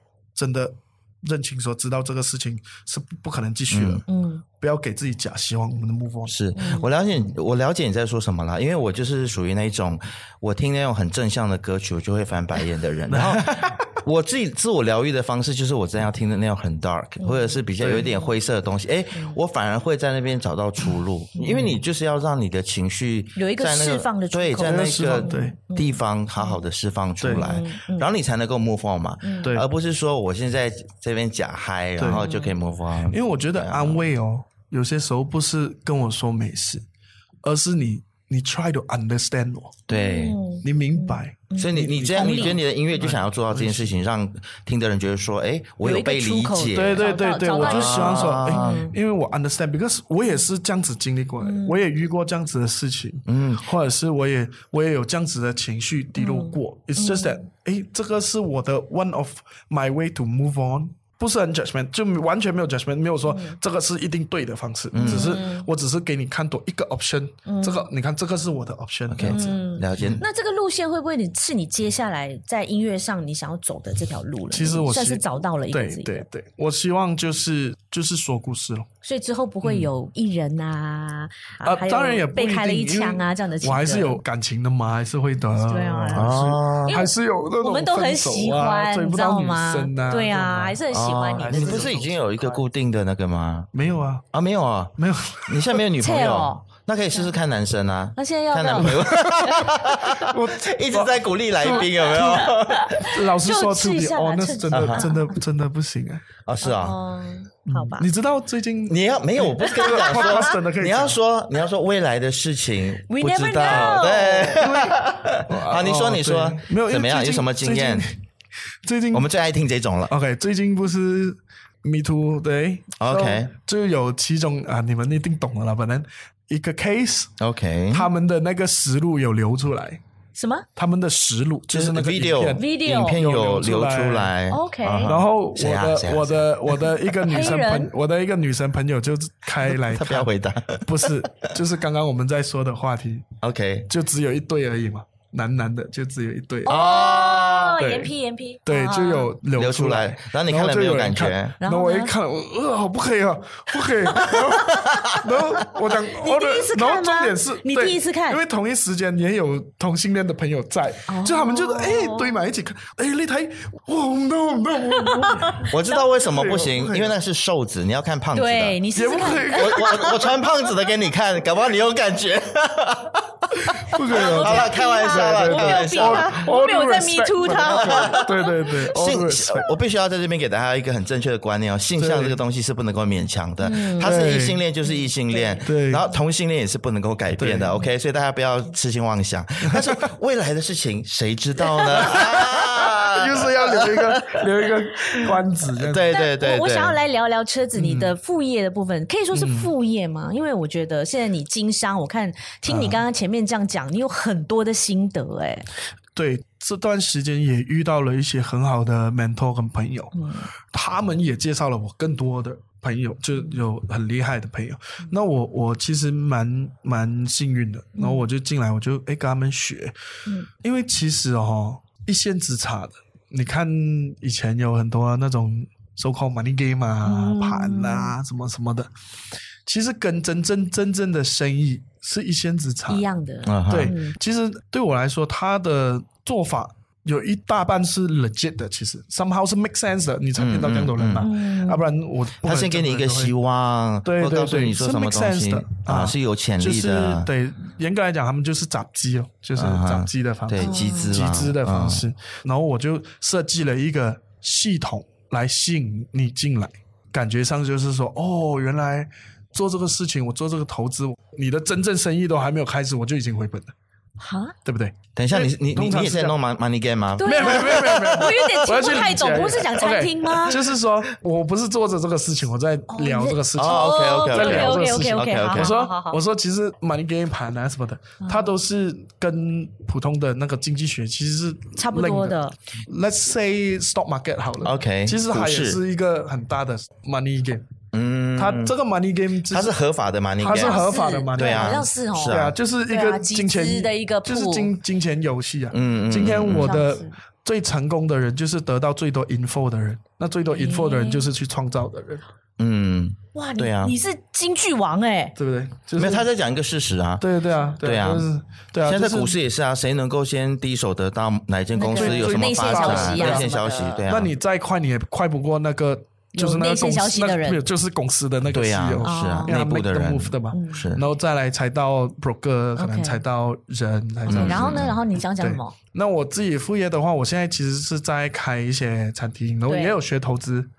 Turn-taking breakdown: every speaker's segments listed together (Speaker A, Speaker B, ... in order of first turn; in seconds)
Speaker A: 0.3-4.0, 4.5-6.4, 13.1-13.9, 17.8-18.1, 24.6-25.6, 27.2-27.4, 32.0-32.2, 33.1-36.8, 37.4-39.8, 40.6-43.9, 46.7-70.2, 74.5-78.9, 79.6-79.9, 81.6-90.8, 91.3-92.6, 93.7-94.3, 95.0-95.8, 98.8-106.2, 107.7-111.2, 113.7-118.2, 118.8-119.2, 120.1-127.3, 127.9-130.0, 130.8-134.3, 135.0-140.3, 140.8-143.3, 143.9-146.8, 147.8-148.1, 148.6-165.7, 166.2-167.1, 168.9-170.2, 173.6-179.7, 182.0-182.4, 184.0-184.6, 185.6-186.0, 187.3-187.8, 191.9-196.1, 197.8-198.1, 199.3-199.7, 202.7-203.0, 206.1-210.1, 210.7-219.9, 220.6-228.9, 229.7-233.1, 233.7-243.3, 244.0-263.7, 264.6-266.4, 267.2-287.7, 288.4-289.8, 290.4-302.2, 305.4-306.2, 307.2-309.3, 311.9-313.5, 314.1-330.7
Speaker B: 3.7-4.0, 6.3-34.0, 39.9-40.4, 41.6-48.9, 53.3-53.6, 64.9-65.4, 69.1-70.2, 86.1-87.0, 90.9-93.7, 94.3-94.9, 95.5-103.1, 104.7-105.1, 106.4-107.0, 108.9-118.0, 119.1-120.1, 123.0-123.5, 127.4-128.1, 131.7-136.9, 139.6-141.1, 143.4-143.9, 146.7-147.8, 149.5-151.6, 154.7-155.3, 165.7-168.8, 169.5-176.4, 177.6-178.3, 178.9-197.0, 233.4-233.9, 240.3-241.3, 242.4-247.3, 249.6-252.0, 265.1-268.5, 273.5-275.7, 284.6-285.8, 287.9-288.7, 289.5-292.5, 295.7-296.7, 302.6-303.9, 306.0-307.2, 307.8-308.3, 308.8-314.3, 318.5-321.0, 324.3-325.0
Speaker C: 4.1-4.4, 6.5-6.9, 17.2-18.1, 21.4-21.7, 23.4-26.6, 27.3-28.1, 29.2-29.5, 32.2-32.5, 39.9-42.6, 45.8-48.9, 51.4-51.8, 56.1-57.4, 63.2-63.6, 65.0-65.7, 67.5-67.9, 69.2-76.2, 79.0-84.2, 85.6-91.9, 96.0-97.3, 98.2-99.7, 102.1-105.3, 106.6-108.1, 109.6-110.4, 113.1-114.7, 130.3-130.7, 132.6-133.2, 134.5-135.1, 137.2-137.9, 146.7-149.3, 151.6-152.1, 154.2-154.5, 156.1-158.4, 161.1-162.5, 164.9-166.0, 168.3-170.3, 174.1-178.8, 183.6-184.2, 184.8-185.7, 196.1-205.7, 210.1-210.5, 218.0-218.2, 227.0-228.1, 232.9-234.2, 241.2-241.9, 250.6-251.2, 264.2-264.5, 267.2-270.6, 272.9-276.2, 278.2-278.5, 281.8-282.5, 290.4-294.7, 296.4-297.1, 300.5-301.3, 303.3-305.3, 311.8-314.0, 316.3-317.6, 319.0-319.6, 320.5-320.9, 322.8-323.2, 324.3-325.7, 329.7-329.9